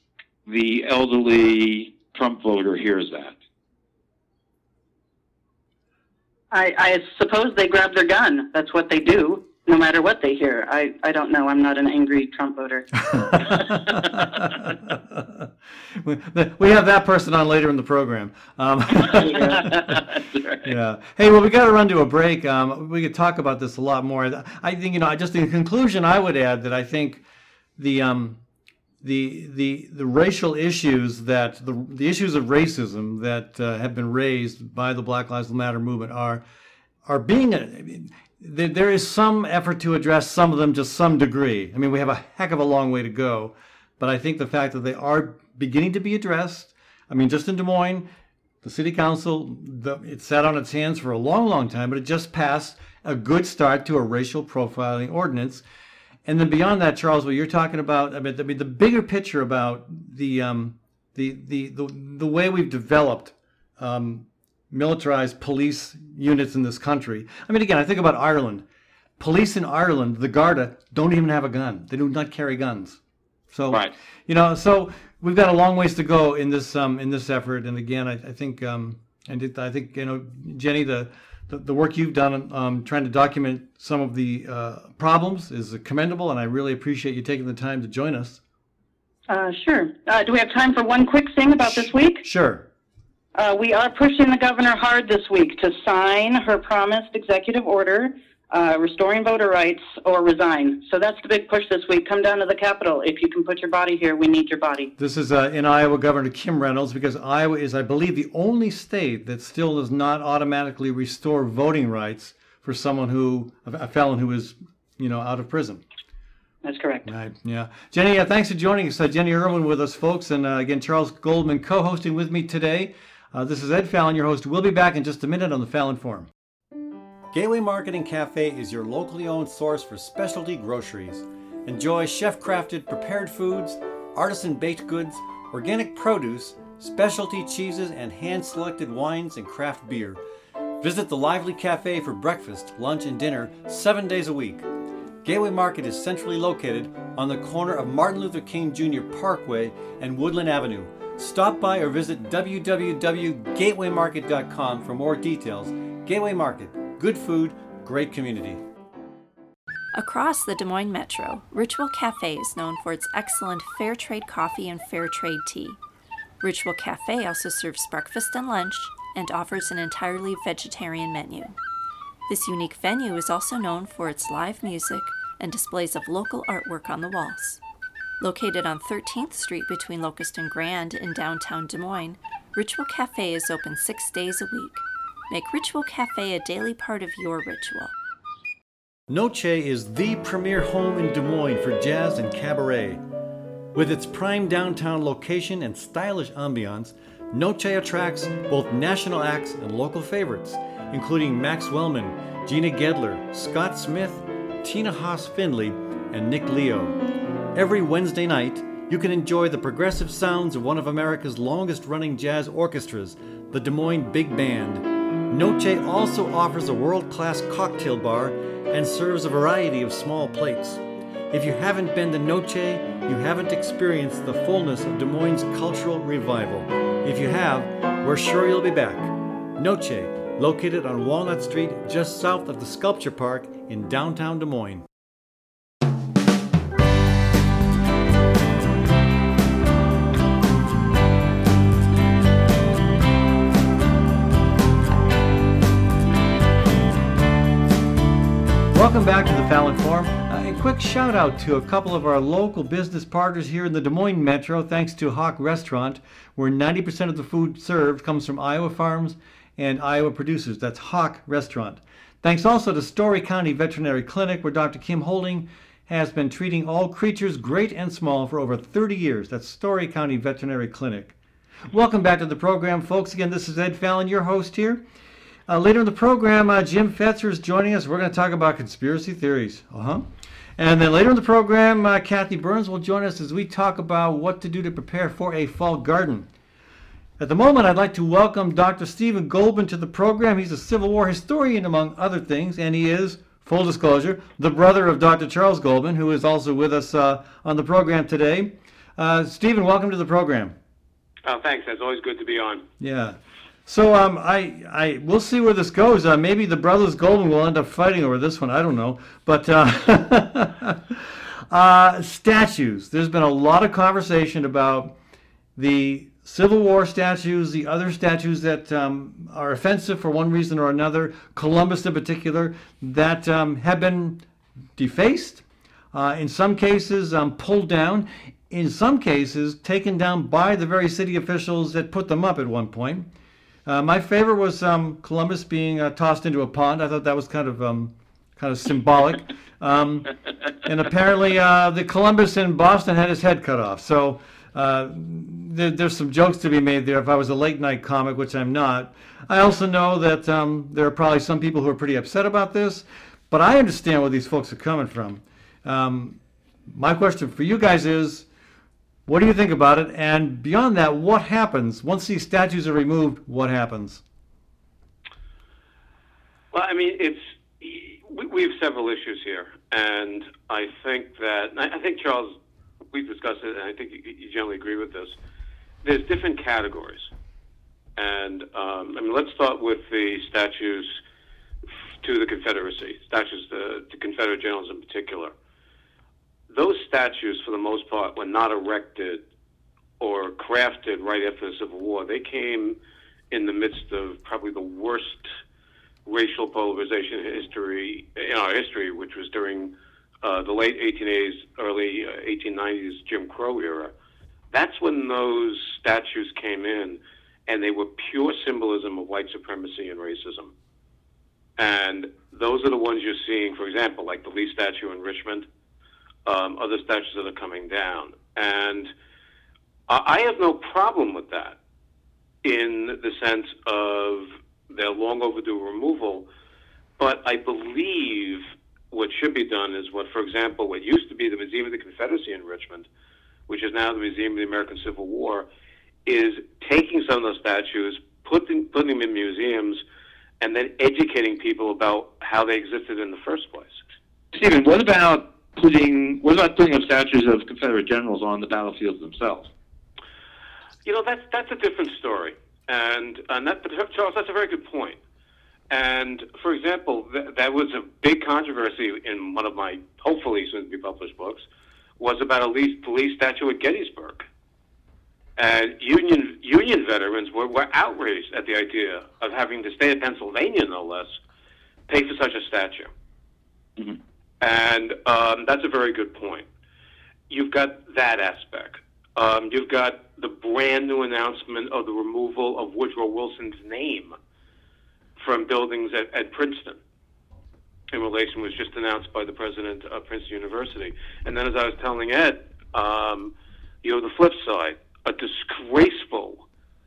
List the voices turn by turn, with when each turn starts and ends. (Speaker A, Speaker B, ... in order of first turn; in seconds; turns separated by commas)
Speaker A: 0.5-3.4, Speaker B: 6.5-12.9, Speaker C: 13.0-20.0, Speaker A: 19.0-20.6, Speaker B: 19.2-19.7, Speaker C: 20.6-27.2, Speaker C: 27.8-28.4, Speaker C: 29.0-36.4, Speaker C: 37.0-48.1, Speaker C: 48.6-55.6, Speaker C: 56.2-68.7, Speaker C: 69.2-73.0, Speaker C: 73.5-88.4, Speaker B: 89.3-92.2, Speaker C: 91.6-92.7, Speaker B: 93.3-104.9, Speaker C: 105.0-115.8, Speaker B: 116.6-117.1, Speaker C: 117.1-126.3, Speaker C: 127.3-140.2, Speaker C: 140.8-144.7, Speaker C: 145.2-158.6, Speaker D: 159.9-165.8, Speaker D: 166.4-171.6, Speaker D: 172.3-177.6, Speaker D: 178.2-187.9, Speaker C: 189.1-193.0, Speaker C: 193.7-207.0, Speaker C: 207.5-234.8, Speaker C: 248.7-271.1, Speaker C: 271.7-274.8, Speaker C: 275.5-286.3, Speaker C: 287.2-300.6, Speaker E: 301.2-302.6, Speaker C: 302.8-315.0, Speaker C: 315.6-324.2, Speaker C: 324.8-333.1, Speaker C: 333.7-340.1, Speaker C: 340.6-358.3, Speaker C: 359.1-364.0, Speaker E: 366.5-372.4, Speaker E: 372.9-375.1, Speaker E: 375.8-377.1, Speaker E: 378.0-381.0, Speaker E: 382.0-385.3, Speaker E: 386.5-389.2, Speaker E: 390.0-392.8, Speaker E: 393.3-395.2, Speaker E: 396.1-403.9, Speaker E: 404.5-410.5, Speaker E: 411.6-415.5, Speaker E: 416.3-418.9, Speaker E: 419.9-421.6, Speaker E: 422.4-426.3, Speaker E: 427.0-432.9, Speaker E: 433.5-435.5, Speaker E: 436.1-439.8, Speaker E: 440.4-443.8, Speaker A: 444.3-449.5, Speaker E: 450.9-455.0, Speaker E: 455.7-461.4, Speaker E: 462.0-464.2, Speaker E: 465.4-471.2, Speaker E: 471.9-472.9, Speaker E: 474.4-476.5, Speaker E: 477.3-484.1, Speaker E: 485.2-486.8, Speaker E: 487.9-496.4